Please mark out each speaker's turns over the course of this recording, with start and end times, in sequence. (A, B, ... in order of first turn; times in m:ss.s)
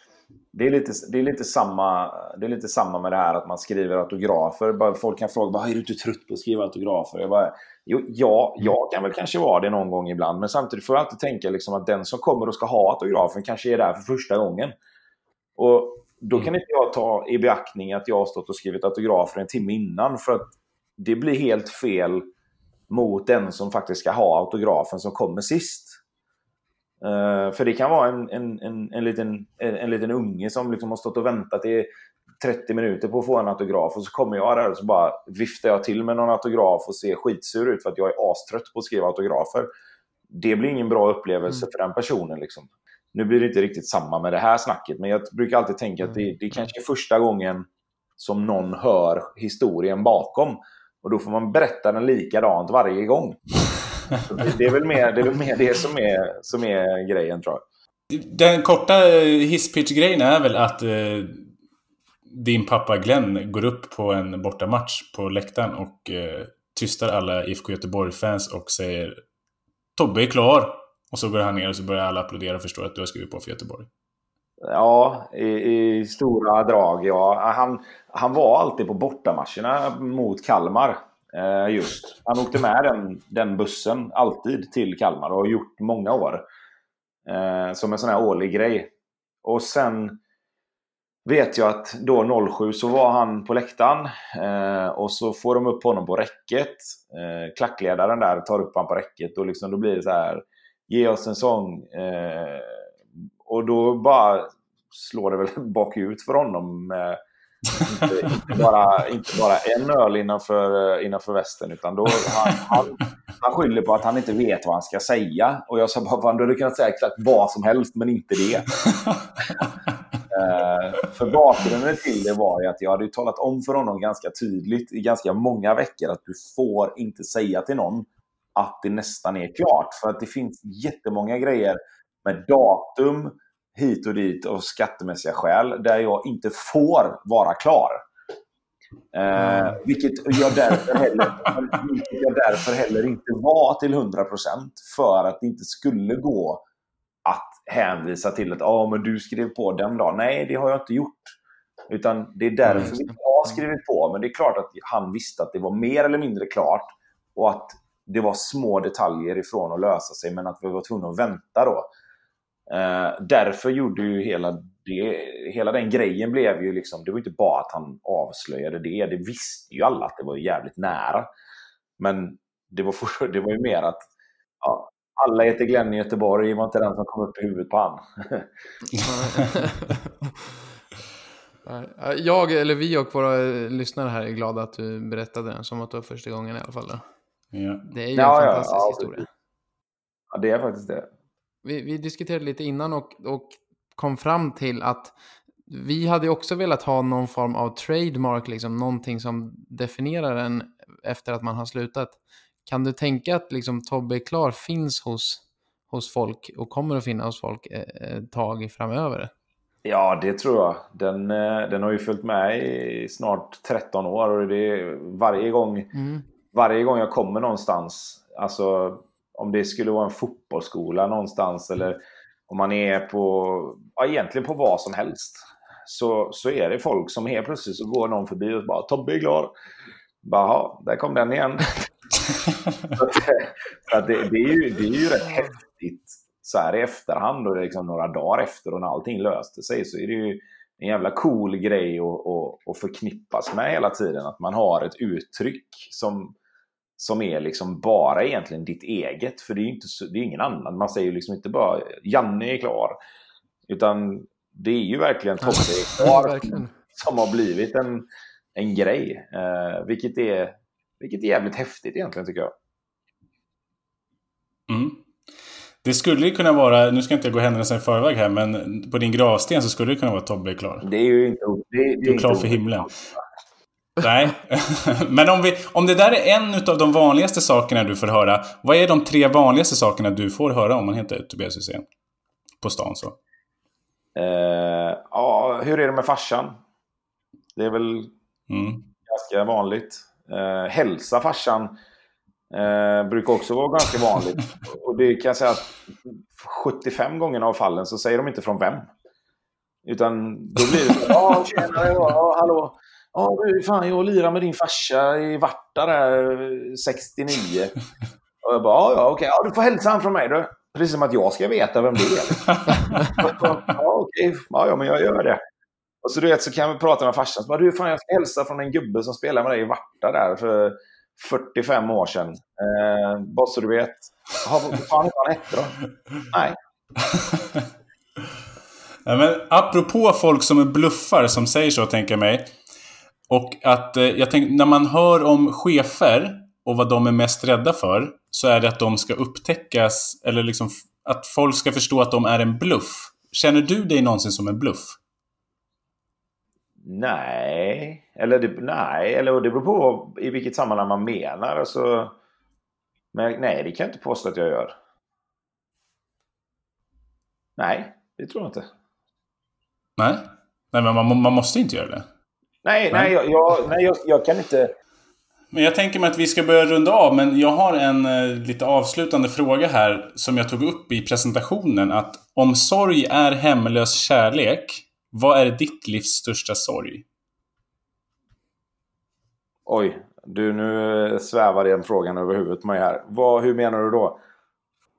0:00.5-0:14.7 A
0:15.6-0:22.2 A
0:22.9-0:26.0 A
0:27.0-0:31.9 A
0:32.4-0:39.7 A
0:40.3-0:47.7 A
0:48.2-0:53.4 A
0:54.2-0:57.6 A
0:58.1-1:01.5 B
1:02.3-1:09.2 B
1:10.0-1:13.9 B
1:14.6-1:26.4 A
1:27.2-1:28.9 A
1:29.4-1:30.2 A
1:31.2-1:42.9 A
1:43.4-1:47.2 A
1:47.8-1:58.8 A
2:00.3-2:18.0 A
2:19.1-2:26.6 A
2:27.2-2:31.4 A
2:31.9-2:41.9 A
2:32.8-2:33.1 C
2:42.7-2:51.3 A
2:52.0-2:54.1 A
2:54.6-2:58.5 A
2:58.9-3:00.3 C
3:01.6-3:07.0 C
3:07.5-3:07.8 B
3:07.9-3:09.3 C
3:08.1-3:09.2 A
3:10.3-3:11.1 A
3:11.6-3:15.1 C
3:15.7-3:29.3 C
3:29.8-3:35.9 A
3:35.9-3:36.2 C
3:36.5-3:49.5 A
3:50.2-3:51.9 A
3:52.9-4:06.4 A
4:07.0-4:13.0 A
4:13.7-4:22.5 A
4:15.4-4:16.7 C
4:24.7-4:25.0 B
4:25.8-4:30.8 B
4:30.8-4:32.9 A
4:32.0-4:32.9 B
4:34.0-4:41.8 B
4:42.6-4:43.2 B
4:44.1-4:46.6 A
4:47.5-4:48.1 A
4:48.5-4:48.9 B
4:49.1-4:51.7 A
4:52.5-4:58.9 A
4:59.8-5:07.7 A
5:08.4-5:12.5 A
5:12.5-5:12.8 B
5:13.2-5:15.4 A
5:16.0-5:25.8 A
5:26.3-5:26.6 A
5:27.1-5:27.4 B
5:29.0-5:32.5 B
5:33.3-5:45.0 B
5:46.8-5:52.1 A
5:53.1-5:54.7 A
5:57.6-5:58.7 A
6:00.0-6:02.0 B
6:02.6-6:04.7 A
6:05.5-6:17.0 B
6:19.6-6:24.2 A